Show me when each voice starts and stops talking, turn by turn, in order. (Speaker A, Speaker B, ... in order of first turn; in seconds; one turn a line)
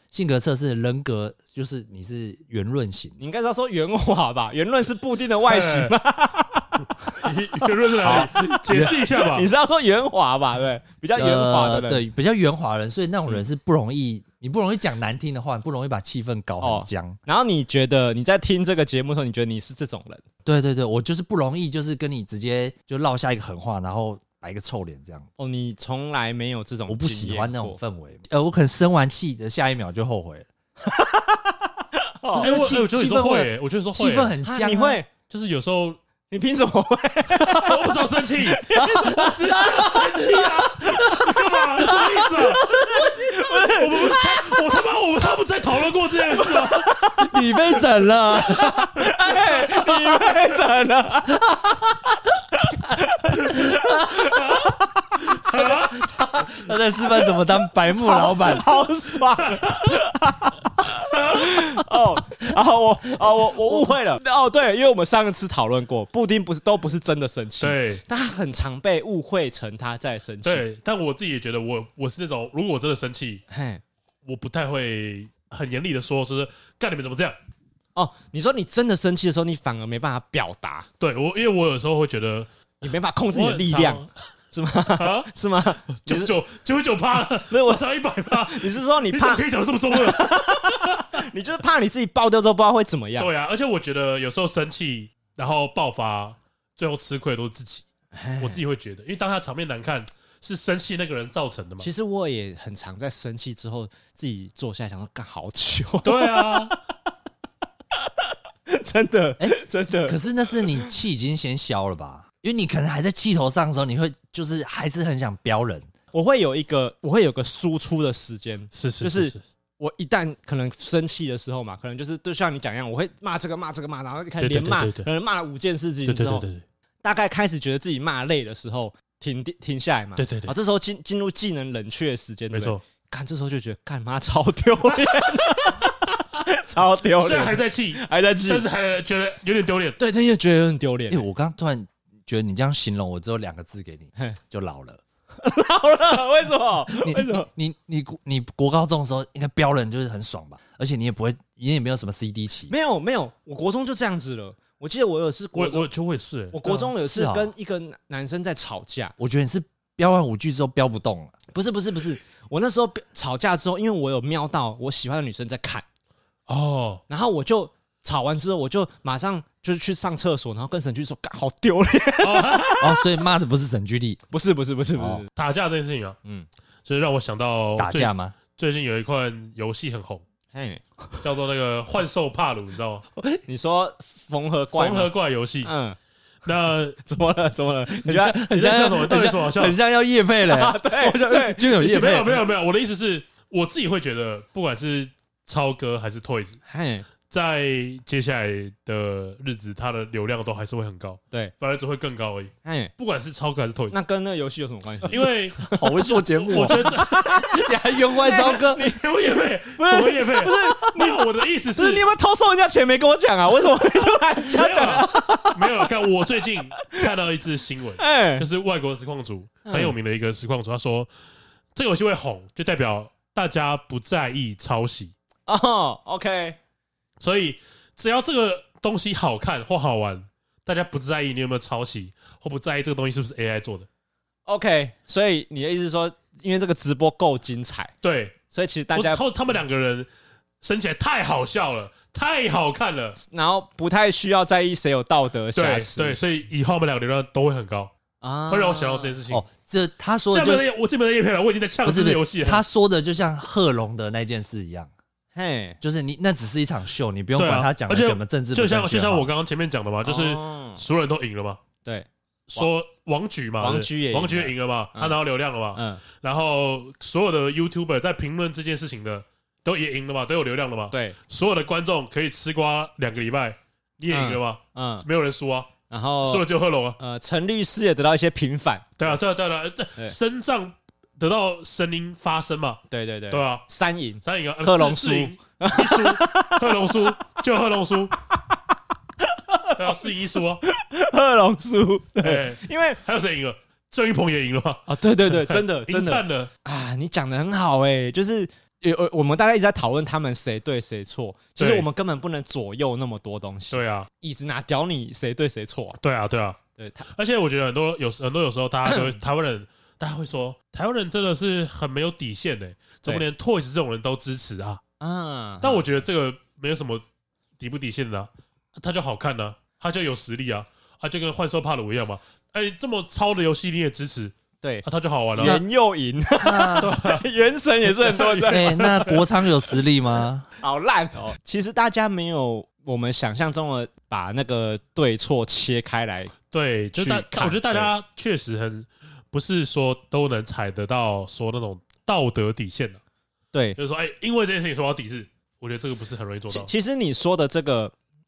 Speaker A: 0.1-3.2
Speaker B: 3.2-7.3
Speaker C: 5.5-5.9
Speaker C: 7.2-9.5
Speaker B: 8.0-12.0
Speaker A: 8.1-8.9
Speaker A: 11.1-17.2
Speaker B: 16.6-20.2
Speaker A: 20.4-25.3
Speaker B: 25.4-27.8
Speaker A: 26.9-30.5
Speaker B: 30.8-31.7
Speaker B: 32.2-32.5
Speaker C: 32.4-34.3
Speaker A: 32.4-35.0
Speaker B: 34.4-35.1
Speaker C: 35.3-36.0
Speaker B: 36.3-44.6
Speaker C: 37.3-46.9
Speaker B: 46.4-47.1
Speaker A: 47.2-49.1
Speaker B: 48.9-51.4
Speaker A: 51.4-52.1
Speaker B: 52.6-54.6
Speaker A: 53.5-54.3
Speaker C: 55.3-56.0
Speaker A: 55.6-58.8
Speaker B: 57.9-70.6
Speaker C: 59.4-59.9
Speaker C: 60.9-61.8
Speaker C: 67.6-68.0
Speaker C: 70.4-73.4
Speaker B: 73.5-73.8
Speaker C: 74.2-77.4
Speaker B: 77.9-80.9
Speaker C: 81.0-82.5
Speaker B: 82.8-86.3
Speaker C: 83.3-84.1
Speaker C: 85.0-85.3
Speaker C: 85.9-91.1
Speaker B: 87.5-93.3
Speaker C: 93.2-97.8
Speaker B: 98.1-98.6
Speaker C: 98.4-101.9
Speaker B: 101.8-106.8
Speaker C: 106.0-106.7
Speaker B: 108.7-110.8
Speaker A: 110.0-115.9
Speaker B: 116.1-126.5
Speaker C: 118.7-119.4
Speaker C: 124.4-125.1
Speaker C: 126.0-126.6
Speaker B: 127.0-138.7
Speaker C: 130.2-130.5
Speaker C: 132.5-132.8
Speaker C: 137.2-140.0
Speaker B: 140.0-141.2
Speaker A: 141.1-145.0
Speaker B: 145.4-147.5
Speaker A: 147.0-152.7
Speaker B: 152.7-155.9
Speaker C: 155.5-156.6
Speaker B: 156.5-159.1
Speaker A: 156.6-157.5
Speaker A: 159.2-161.3
Speaker B: 161.5-165.8
Speaker C: 166.5-167.0
Speaker B: 167.1-173.0
Speaker C: 172.2-172.7
Speaker A: 172.8-174.2
Speaker B: 174.3-175.3
Speaker A: 174.9-175.2
Speaker C: 175.3-176.2
Speaker C: 176.8-180.2
Speaker A: 177.8-178.3
Speaker B: 180.5-181.1
Speaker C: 181.2-183.1
Speaker B: 183.5-185.1
Speaker C: 184.7-185.7
Speaker B: 185.6-186.0
Speaker C: 186.4-187.0
Speaker B: 187.0-188.4
Speaker C: 188.1-189.8
Speaker A: 188.1-192.4
Speaker B: 190.4-191.7
Speaker C: 191.8-196.6
Speaker B: 196.7-197.1
Speaker C: 197.3-203.9
Speaker B: 202.6-202.9
Speaker B: 203.9-206.0
Speaker C: 205.1-207.2
Speaker A: 205.6-208.9
Speaker B: 206.5-209.0
Speaker C: 208.7-212.0
Speaker B: 209.8-211.2
Speaker B: 211.7-215.8
Speaker C: 214.5-221.1
Speaker B: 218.0-218.5
Speaker B: 219.6-219.9
Speaker C: 221.7-225.1
Speaker B: 225.5-226.6
Speaker C: 227.2-233.9
Speaker B: 234.4-237.9
Speaker C: 238.0-238.4
Speaker B: 238.5-239.2
Speaker C: 238.9-240.1
Speaker C: 240.6-243.2
Speaker B: 243.2-246.2
Speaker C: 245.6-247.9
Speaker B: 248.2-249.1
Speaker C: 248.5-249.5
Speaker A: 249.3-250.6
Speaker C: 250.3-252.6
Speaker A: 251.8-254.9
Speaker B: 255.3-255.8
Speaker A: 255.8-259.3
Speaker C: 257.4-261.6
Speaker B: 260.0-260.8
Speaker B: 261.8-262.7
Speaker C: 262.5-277.0
Speaker B: 263.6-265.2
Speaker B: 265.7-266.0
Speaker B: 270.9-271.2
Speaker B: 274.1-275.1
Speaker B: 275.9-276.4
Speaker B: 277.0-279.1
Speaker C: 279.0-283.6
Speaker B: 282.9-287.1
Speaker C: 284.2-288.1
Speaker B: 289.2-290.1
Speaker C: 289.8-290.6
Speaker B: 290.6-293.0
Speaker C: 292.2-296.5
Speaker B: 294.9-306.0
Speaker C: 301.6-301.9
Speaker C: 303.7-304.1
Speaker C: 306.0-314.8
Speaker B: 306.8-307.1
Speaker B: 308.9-309.1
Speaker B: 315.0-315.8
Speaker C: 315.6-317.0
Speaker C: 317.6-325.6
Speaker B: 325.4-329.1
Speaker A: 325.4-325.6
Speaker A: 326.4-326.9
Speaker C: 326.8-327.2
Speaker C: 327.9-329.2
Speaker A: 328.5-330.5
Speaker B: 330.6-336.3
Speaker C: 336.5-343.0
Speaker B: 337.0-337.9
Speaker B: 343.5-343.8
Speaker C: 343.8-346.7
Speaker B: 346.5-347.9